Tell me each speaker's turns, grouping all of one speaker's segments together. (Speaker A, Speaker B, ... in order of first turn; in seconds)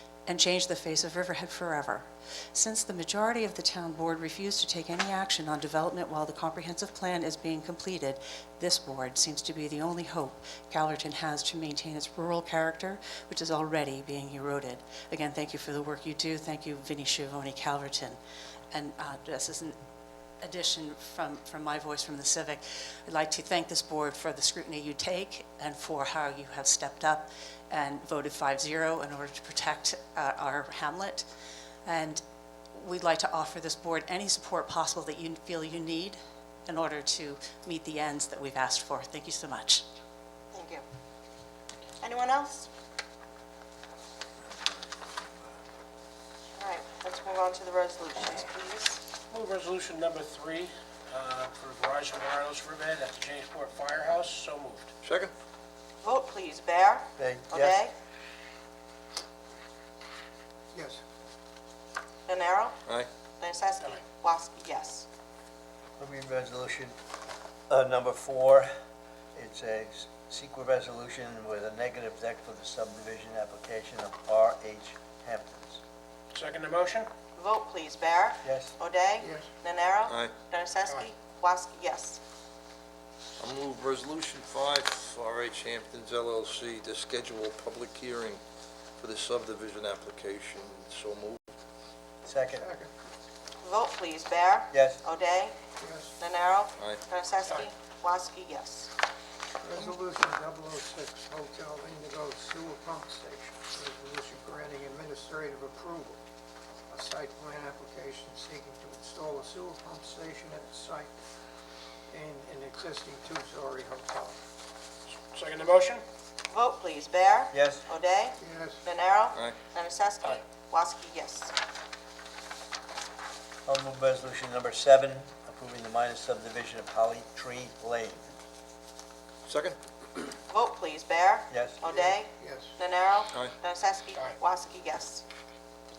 Speaker A: 0.3-18.2, 18.7-19.8, 20.4-31.3, 31.9-32.2, 32.7-39.8
Speaker B: 40.5-40.8, 42.0-42.7, 46.6-49.0, 56.0-57.9, 62.3-62.7, 63.4-65.1, 77.4-82.2, 93.6-95.5, 96.2-98.9, 116.5-121.5, 130.5-135.2
Speaker C: 49.3-54.9, 76.3-77.1, 115.3-116.0
Speaker D: 55.0-55.3, 80.1-80.4, 83.4-88.4, 89.0-91.4, 96.8-97.0, 119.3-119.6, 129.5-129.8
Speaker E: 57.2-57.8, 66.0-66.9, 67.7-68.7, 69.3-75.8, 78.5-78.8, 92.2-92.7, 94.7-95.0, 117.5-117.8, 123.7-128.3, 131.5-131.8
Speaker F: 60.7-61.0, 79.2-79.5, 92.5-92.9, 95.8-96.2, 99.6-106.2, 106.9-111.2, 112.1-114.4, 118.4-118.8, 131.9-132.8